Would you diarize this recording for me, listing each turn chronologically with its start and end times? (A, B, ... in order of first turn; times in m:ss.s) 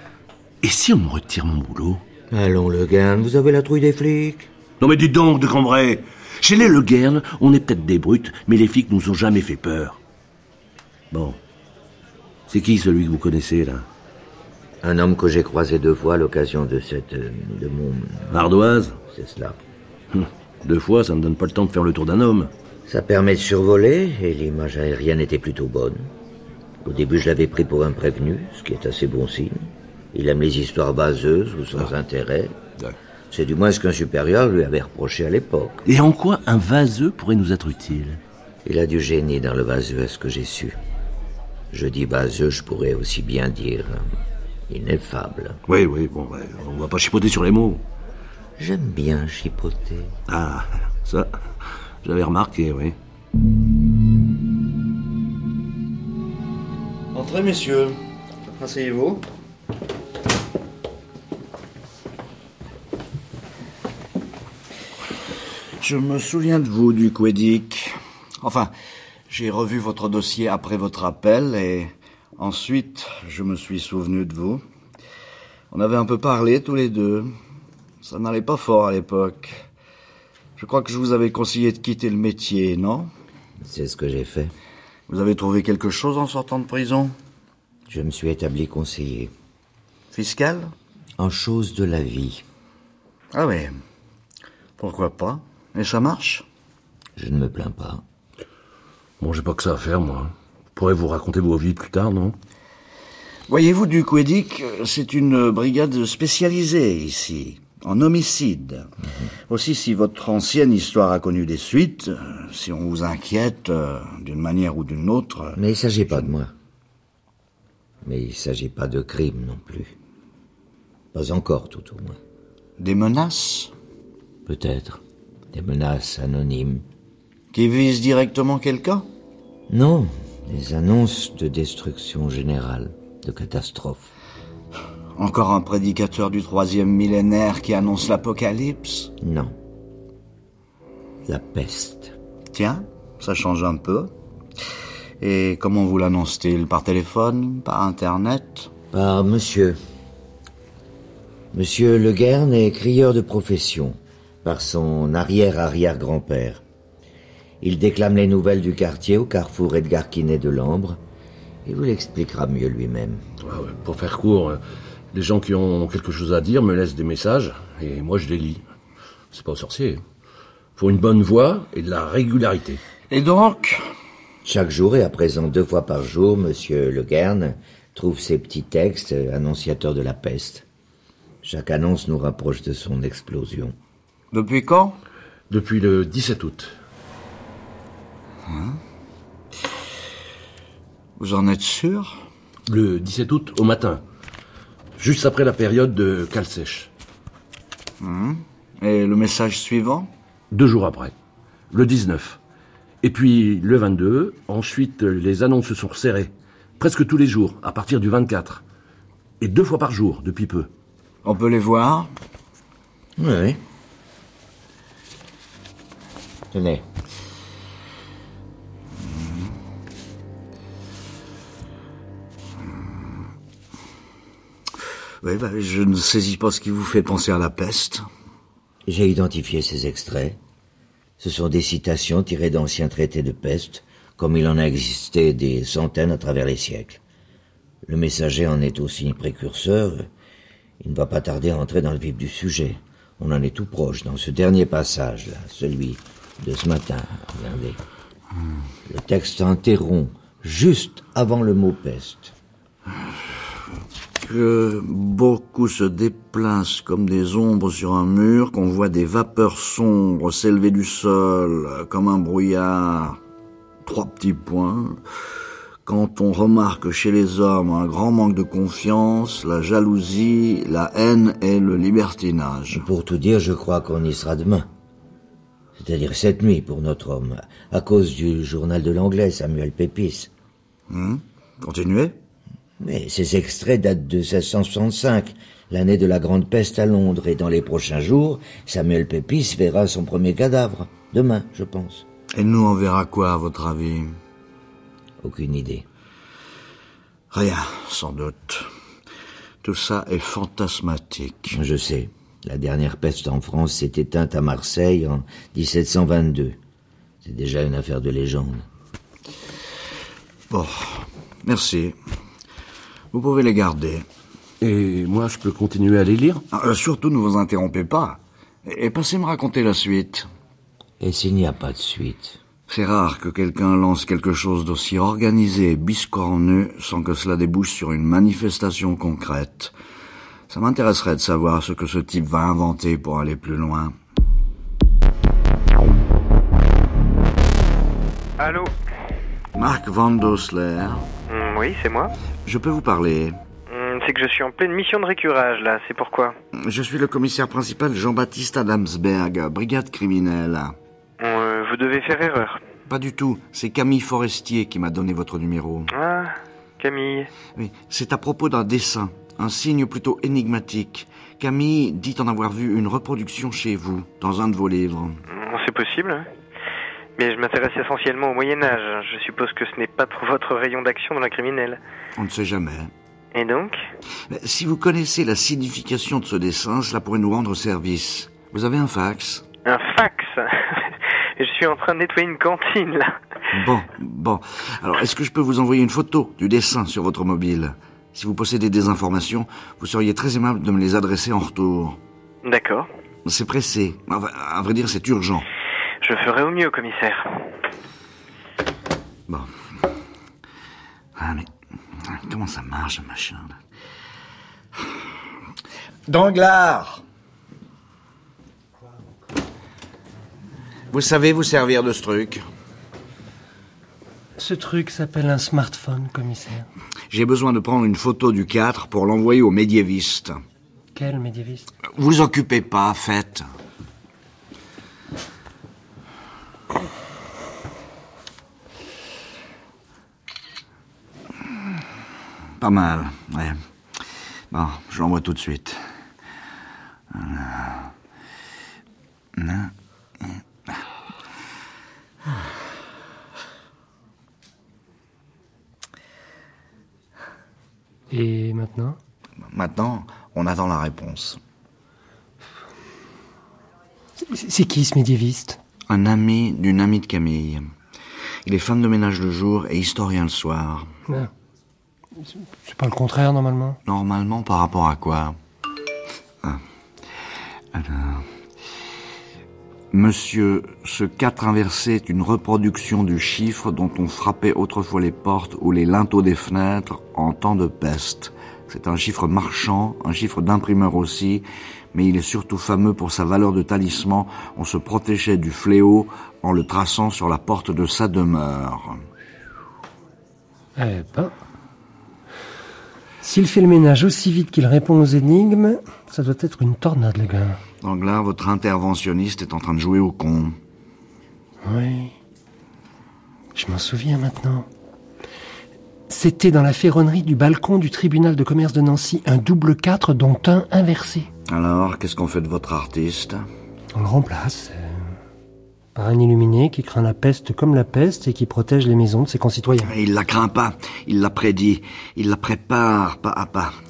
0:00.6-0:02.0 A
0:02.3-0:04.5 B
0:04.8-0:10.0 A
0:11.1-0:11.4 A
0:12.5-0:13.8 A
0:14.8-0:18.4 B
0:18.3-0:19.0 A
0:19.1-0:19.6 B
0:20.1-0:22.5 A
0:22.9-0:26.1 B
0:26.8-0:32.6 B
0:33.3-0:35.8 B
0:35.8-0:38.2 A
0:38.6-0:40.8 B
0:41.7-0:44.1 B
0:44.7-0:45.6 B
0:45.7-0:47.8 A
0:48.6-0:50.2 B
0:50.3-0:51.4 A
0:52.0-0:53.0 A
0:57.1-0:58.0 C
0:58.5-0:59.2 C
1:05.8-1:08.7 C
1:09.3-1:14.6 C
1:15.7-1:17.3 C
1:18.0-1:19.6 C
1:20.6-1:23.1 C
1:23.6-1:24.5 B
1:25.1-1:27.1 C
1:27.9-1:29.3 B
1:30.1-1:30.7 C
1:31.2-1:32.4 B
1:33.3-1:33.7 C
1:34.8-1:36.4 C
1:37.2-1:38.0 B
1:39.2-1:42.4 A
1:43.5-1:48.9 C
1:49.5-1:55.6 C
1:55.6-1:56.5 B
1:58.0-1:59.9 B
2:01.1-2:02.2 B
2:02.8-2:03.7 C
2:04.4-2:05.0 B
2:05.5-2:06.8 B
2:07.5-2:09.0 C
2:09.7-2:14.1 B
2:15.2-2:19.1 C
2:19.2-2:19.5 B
2:21.2-2:22.1 B
2:22.5-2:24.1 C
2:25.2-2:28.7 C
2:28.9-2:29.8 B
2:31.5-2:36.6 B
2:37.6-2:41.0 B
2:41.6-2:43.2 B
2:43.4-2:44.6 A
2:45.1-2:48.6 A
2:49.3-2:50.0 A
2:50.8-2:52.8 A
2:53.1-2:53.8 C
2:54.4-3:00.6 B
3:01.4-3:03.7 B
3:04.3-3:05.0 C
3:05.5-3:06.7 A
3:08.5-3:08.8 C
3:11.2-3:12.2 C
3:12.7-3:14.0 A
3:15.0-3:16.9 A
3:18.0-3:20.1 C
3:20.5-3:21.1 A
3:21.7-3:22.4 A
3:23.0-3:28.6 A
3:29.4-3:30.7 A
3:31.2-3:32.1 C
3:33.2-3:33.6 B
3:36.5-3:36.8 B
3:39.0-3:39.5 C
3:45.2-3:48.0 C
3:48.9-3:50.4 B
3:51.2-3:57.0 B
3:57.8-4:00.1 B
4:00.8-4:07.8 B
4:08.9-4:12.3 B
4:14.2-4:23.2 C
4:23.8-4:25.0 C
4:25.8-4:32.8 C
4:32.7-4:34.7 B
4:35.8-4:40.3 B
4:40.9-4:42.2 C
4:42.8-4:52.1 B
4:52.3-4:54.1 C
4:55.2-4:55.9 B
4:57.3-4:58.7 C
4:59.6-5:01.6 C
5:01.5-5:06.6 B
5:07.2-5:08.6 B
5:10.5-5:12.0 C
5:13.1-5:14.1 C
5:14.6-5:16.4 A
5:16.5-5:20.3 C
5:21.0-5:22.4 B
5:22.7-5:29.7 C
5:30.5-5:33.9 C
5:38.4-5:38.7 D
5:39.6-5:41.1 C
5:41.3-5:42.1 D
5:42.4-5:43.4 C
5:43.7-5:46.4 D
5:46.6-5:50.8 C
5:51.2-5:52.6 D
5:52.9-5:55.9 C
5:55.9-5:57.3 D
5:57.5-6:05.2 C
6:05.3-6:06.3 D
6:07.2-6:11.8 D
6:12.2-6:12.9 C
6:13.4-6:13.8 D
6:14.3-6:19.4 C
6:19.6-6:23.2 D
6:23.5-6:32.0 C
6:32.4-6:32.9 D
6:33.2-6:35.5 C
6:36.0-6:37.4 D
6:41.2-6:41.5 C
6:42.0-6:43.6 C
6:46.1-6:47.0 C
6:50.9-6:52.4 C
6:54.4-6:56.7 E
6:57.1-7:00.4 C
7:00.9-7:01.7 E
7:01.9-7:03.4 C
7:12.6-7:13.6 C
7:14.5-7:15.8 C
7:17.1-7:17.9 C
7:19.4-7:19.7 C
7:28.1-7:29.0 E
7:29.5-7:31.4 C
7:34.2-7:35.6 E
7:35.9-7:37.6 C
7:38.4-7:40.9 C
7:42.6-7:43.8 E
7:43.9-7:45.4 C
7:47.7-7:48.2 C
7:49.9-8:09.0 C
8:10.8-8:11.4 E
8:13.2-8:17.6 E
8:17.8-8:20.6 C
8:21.6-8:22.1 E
8:23.5-8:24.7 E
8:26.1-8:31.3 E
8:31.5-8:33.4 C
8:33.9-8:35.1 E
8:35.9-8:39.9 E
8:39.8-8:43.7 C